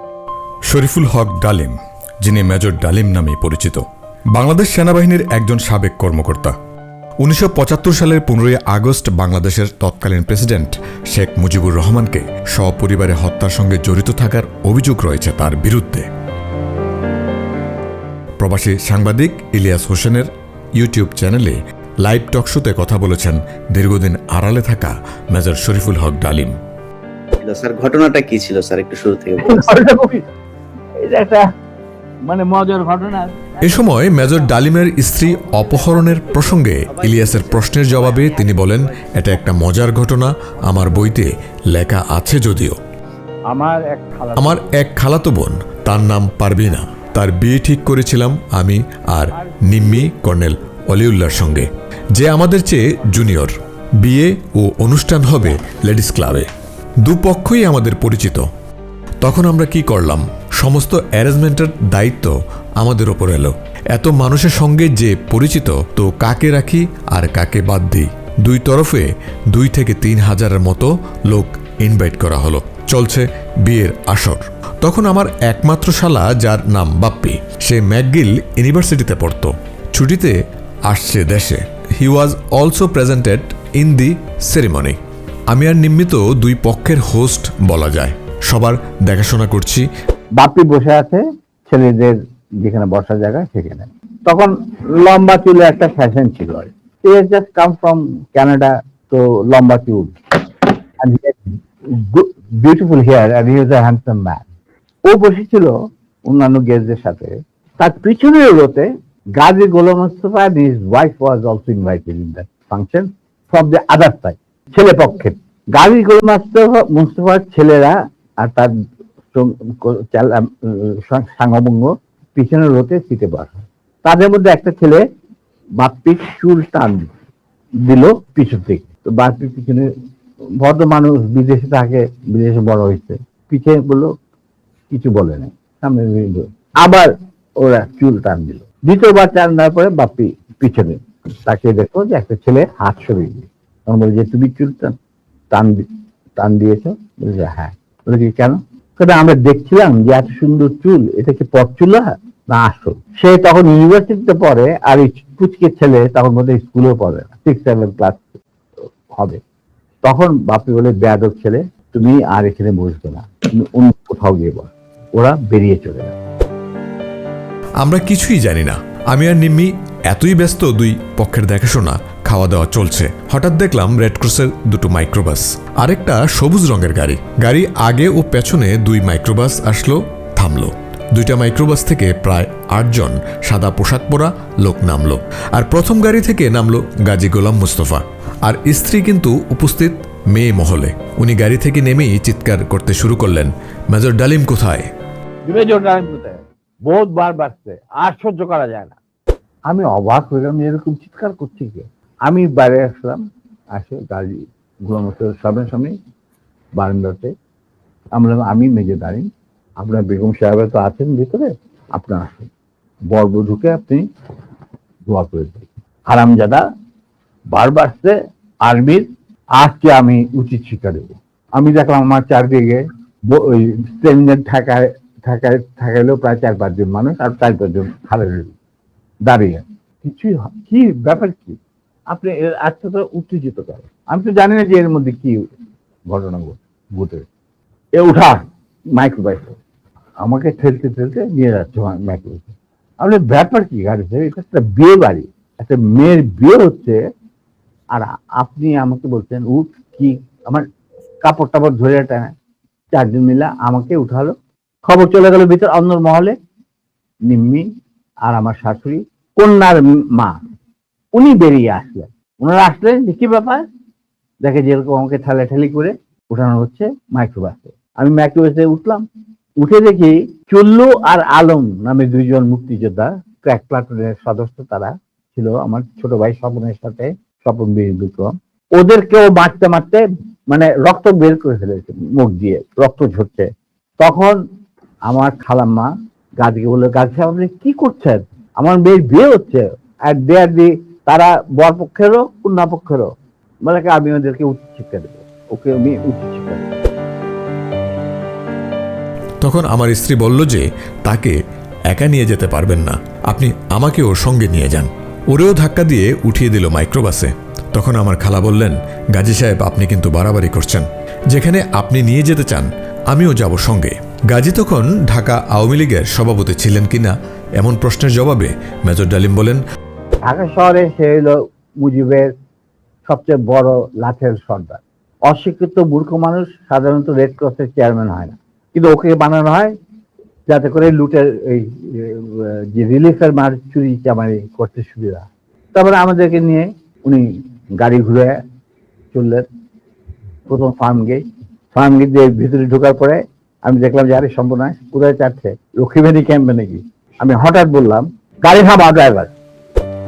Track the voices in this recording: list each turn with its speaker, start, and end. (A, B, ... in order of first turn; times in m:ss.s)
0:00.7-0:06.5 A
0:07.2-0:16.1 A
0:18.4-0:26.5 A
0:27.4-0:29.6 B
0:29.4-0:30.2 C
0:31.0-0:31.4 C
0:32.3-0:36.1 C
0:33.6-0:42.8 A
0:37.0-0:38.7 B
0:40.8-0:41.1 C
0:43.5-0:44.8 C
0:44.4-0:56.5 A
0:49.3-0:50.2 C
0:57.0-0:58.4 A
0:59.2-1:20.3 A
1:20.9-1:25.0 A
1:25.5-1:29.9 A
1:30.4-1:40.1 C
1:41.0-1:44.4 C
1:45.0-1:45.7 C
1:46.2-1:58.7 C
1:59.3-2:05.0 C
2:05.8-2:07.1 C
2:07.8-2:09.9 C
2:10.6-2:14.1 C
2:14.9-2:17.1 C
2:17.6-2:24.9 C
2:25.5-2:25.8 C
2:26.4-2:38.3 C
2:39.1-2:39.4 C
2:40.0-2:46.2 C
2:47.8-3:14.9 A
3:15.4-3:19.0 C
3:19.7-3:23.2 C
3:23.7-3:25.9 C
3:26.8-3:27.3 C
3:28.1-3:29.3 C
3:29.8-3:32.5 C
3:33.1-3:34.0 C
3:35.0-3:36.6 C
3:37.5-3:39.1 C
3:39.6-3:48.5 C
3:49.2-3:51.6 C
3:52.1-3:55.4 C
3:56.1-3:57.3 C
3:57.9-3:58.4 C
3:58.9-3:59.6 C
4:00.2-4:07.0 C
4:07.9-4:10.6 C
4:11.2-4:12.3 C
4:12.9-4:14.3 C
4:14.8-4:16.4 C
4:17.3-4:17.7 C
4:18.2-4:20.4 C
4:21.1-4:23.6 C
4:24.4-4:29.0 C
4:29.6-4:43.5 C
4:44.0-4:44.4 C
4:45.1-4:53.1 C
4:53.6-4:56.7 C
4:59.4-5:01.3 A
5:01.9-5:19.6 A
5:20.3-5:22.3 C
5:23.0-5:29.7 C
5:30.5-5:37.3 C
5:37.8-5:38.4 C
5:39.1-5:39.4 C
5:40.5-5:41.2 C
5:41.7-5:49.3 C